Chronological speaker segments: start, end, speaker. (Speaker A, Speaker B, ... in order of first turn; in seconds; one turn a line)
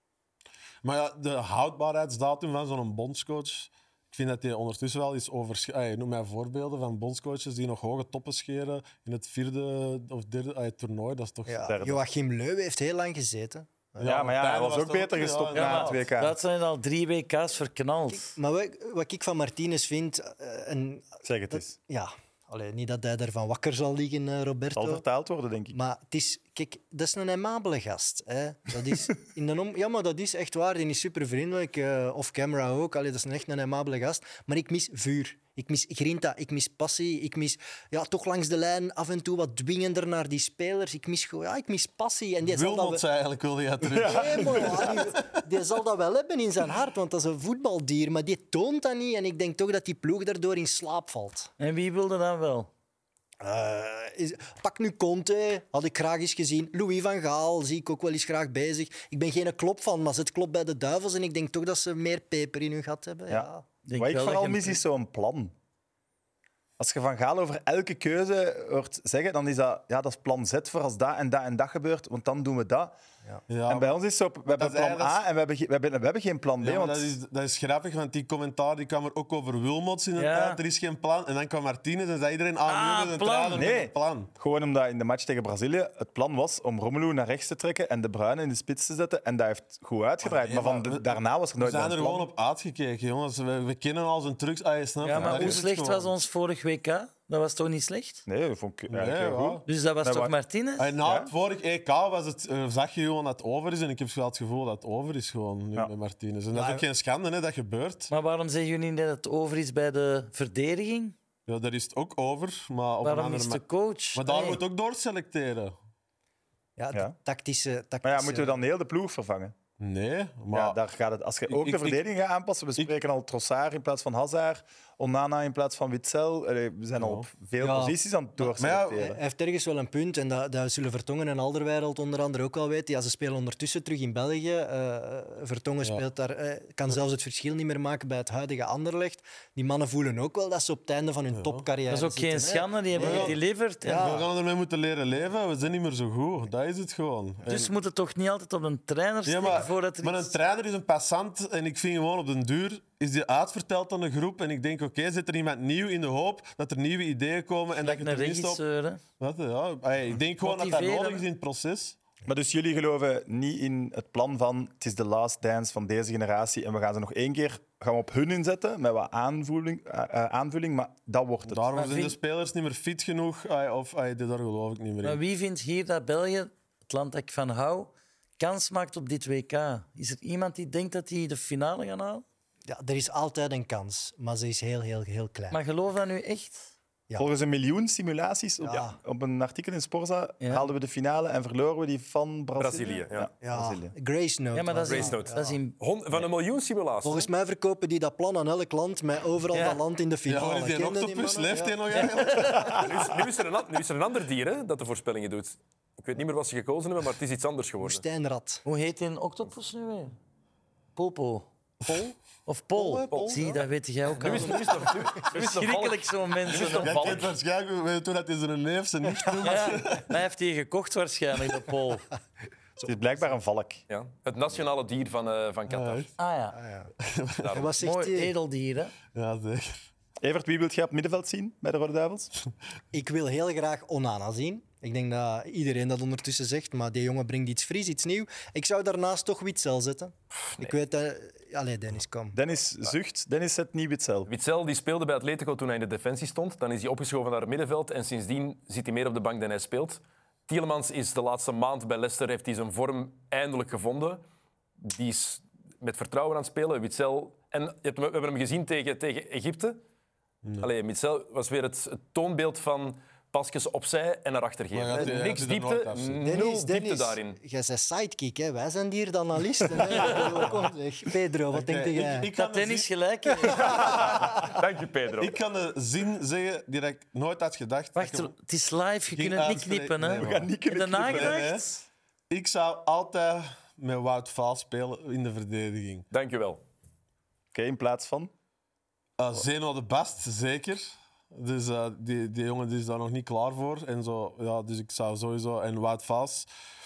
Speaker A: 0.8-11.7
Speaker B: 11.5-14.2
Speaker C: 11.7-12.0
Speaker A: 14.0-16.0
Speaker C: 14.0-16.4
Speaker D: 15.5-18.3
Speaker B: 18.1-25.0
Speaker C: 21.2-21.8
Speaker C: 24.7-25.7
Speaker B: 25.7-43.0
Speaker A: 42.4-45.4
Speaker C: 43.8-44.9
Speaker B: 44.0-51.5
Speaker D: 51.6-52.7
Speaker B: 53.4-63.6
Speaker C: 63.3-65.5
Speaker D: 63.8-64.8
Speaker C: 66.8-73.0
Speaker A: 73.5-73.9
Speaker C: 73.7-77.1
Speaker A: 74.5-75.2
Speaker A: 76.6-84.3
Speaker D: 80.2-80.6
Speaker D: 82.7-83.7
Speaker C: 83.5-92.2
Speaker A: 90.2-96.1
Speaker D: 95.0-98.2
Speaker C: 95.2-95.5
Speaker C: 98.2-100.3
Speaker A: 98.9-99.6
Speaker D: 99.7-100.9
Speaker A: 100.8-108.1
Speaker C: 101.0-101.3
Speaker B: 106.5-106.8
Speaker D: 108.1-111.1
Speaker A: 111.5-115.8
Speaker D: 113.0-114.6
Speaker B: 116.8-118.5
Speaker C: 118.0-119.5
Speaker A: 119.8-120.8
Speaker C: 120.5-129.2
Speaker A: 121.5-122.0
Speaker A: 127.0-127.3
Speaker B: 127.6-144.3
Speaker A: 128.6-129.1
Speaker A: 141.3-141.6
Speaker D: 141.9-144.1
Speaker A: 142.9-147.7
Speaker D: 147.4-150.3
Speaker A: 149.2-158.6
Speaker D: 157.8-159.0
Speaker A: 159.2-162.0
Speaker D: 160.4-161.2
Speaker C: 162.2-171.9
Speaker A: 171.5-175.2
Speaker D: 171.8-172.1
Speaker D: 175.0-182.2
Speaker B: 182.7-185.6
Speaker D: 185.5-186.7
Speaker C: 187.2-193.9
Speaker B: 188.6-189.0
Speaker D: 190.4-190.7
Speaker E: 192.6-193.3
Speaker B: 193.4-195.6
Speaker D: 194.5-195.8
Speaker E: 194.8-197.3
Speaker B: 197.0-201.8
Speaker D: 199.5-199.8
Speaker A: 200.2-202.9
Speaker D: 201.9-202.8
Speaker E: 202.7-208.0
Speaker B: 207.8-208.6
Speaker D: 208.6-210.1
Speaker D: 210.9-211.5
Speaker B: 211.8-212.1
Speaker D: 212.4-217.2
Speaker B: 212.7-213.6
Speaker E: 213.1-213.6
Speaker E: 214.1-217.3
Speaker B: 214.2-214.7
Speaker A: 216.7-220.1
Speaker D: 219.4-222.1
Speaker C: 222.8-223.8
Speaker E: 223.9-226.1
Speaker A: 225.7-226.1
Speaker D: 226.2-226.6
Speaker B: 226.5-226.9
Speaker A: 227.0-227.6
Speaker E: 227.4-227.8
Speaker B: 227.5-228.3
Speaker D: 227.8-228.9
Speaker A: 229.1-229.8
Speaker C: 230.2-232.3
Speaker B: 232.9-242.4
Speaker C: 242.3-244.3
Speaker E: 244.3-254.2
Speaker E: 254.8-259.8
Speaker A: 260.4-260.7
Speaker E: 260.6-267.4
Speaker A: 264.7-266.2
Speaker B: 266.2-272.3
Speaker A: 271.5-272.9
Speaker D: 272.4-273.7
Speaker A: 273.6-274.2
Speaker B: 273.7-274.5
Speaker E: 273.7-275.4
Speaker A: 275.2-278.3
Speaker D: 277.9-281.8
Speaker A: 279.1-280.5
Speaker C: 280.2-281.4
Speaker A: 281.0-281.6
Speaker A: 282.3-286.1
Speaker E: 286.1-286.6
Speaker C: 287.5-288.3
Speaker A: 289.2-296.5